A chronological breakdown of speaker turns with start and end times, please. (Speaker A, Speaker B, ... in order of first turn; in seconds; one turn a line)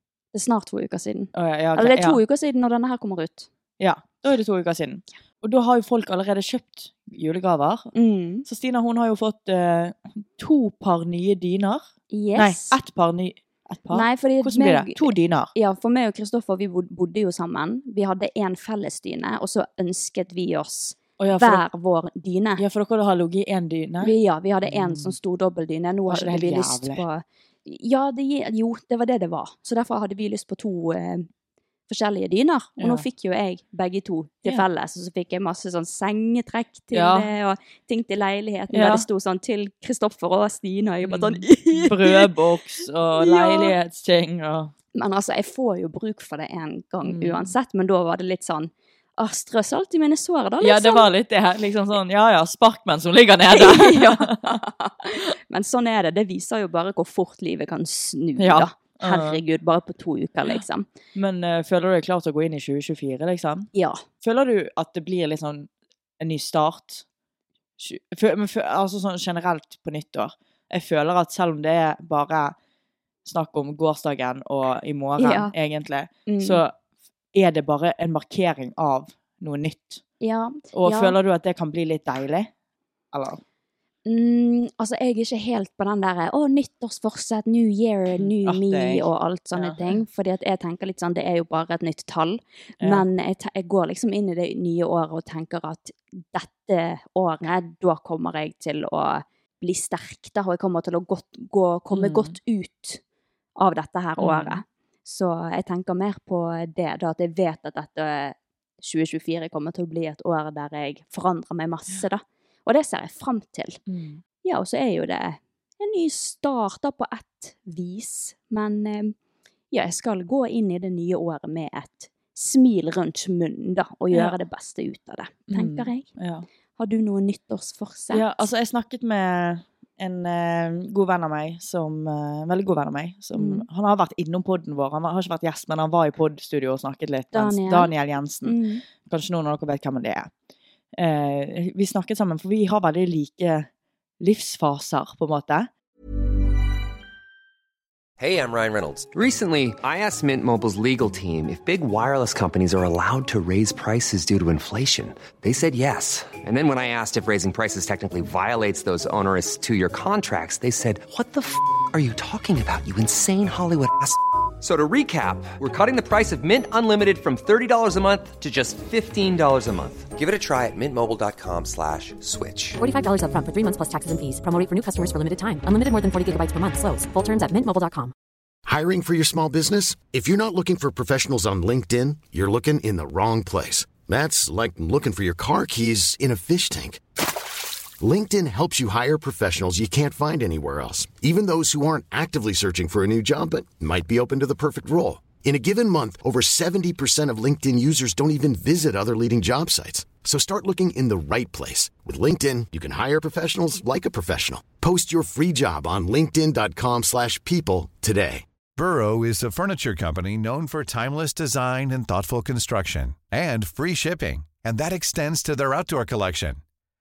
Speaker A: 0.3-3.5
Speaker B: 1.3-2.2
Speaker B: 3.8-7.9
Speaker A: 7.9-8.4
Speaker B: 8.4-15.5
Speaker A: 12.1-12.8
Speaker A: 13.9-22.6
Speaker B: 21.2-21.6
Speaker B: 22.6-24.1
Speaker A: 24.0-31.3
Speaker B: 24.6-25.1
Speaker B: 26.1-27.0
Speaker A: 31.9-42.3
Speaker B: 32.8-33.0
Speaker B: 36.9-37.3
Speaker B: 38.7-39.0
Speaker B: 41.0-44.7
Speaker A: 43.2-43.7
Speaker A: 44.9-51.1
Speaker B: 47.0-47.5
Speaker B: 50.6-54.6
Speaker A: 53.5-60.9
Speaker B: 58.4-59.4
Speaker B: 61.1-63.7
Speaker A: 63.7-64.0
Speaker B: 64.2-65.7
Speaker B: 66.2-67.0
Speaker B: 67.8-72.5
Speaker B: 73.2-76.7
Speaker A: 75.2-75.5
Speaker A: 76.3-76.6
Speaker B: 77.3-80.0
Speaker A: 80.2-81.2
Speaker B: 80.7-82.5
Speaker B: 83.1-83.4
Speaker A: 84.0-103.0
Speaker B: 88.2-89.9
Speaker B: 101.9-102.3
Speaker A: 103.6-113.8
Speaker B: 104.2-104.6
Speaker B: 113.9-114.2
Speaker A: 114.4-119.1
Speaker A: 119.7-126.0
Speaker B: 125.5-126.5
Speaker A: 126.8-128.4
Speaker B: 128.1-140.3
Speaker A: 133.3-133.7
Speaker A: 137.3-137.9
Speaker A: 138.4-138.8
Speaker B: 141.0-143.7
Speaker B: 144.2-145.7
Speaker C: 148.2-172.8
Speaker D: 172.8-178.1
Speaker E: 178.7-187.0
Speaker E: 188.0-208.4
Speaker F: 208.8-216.6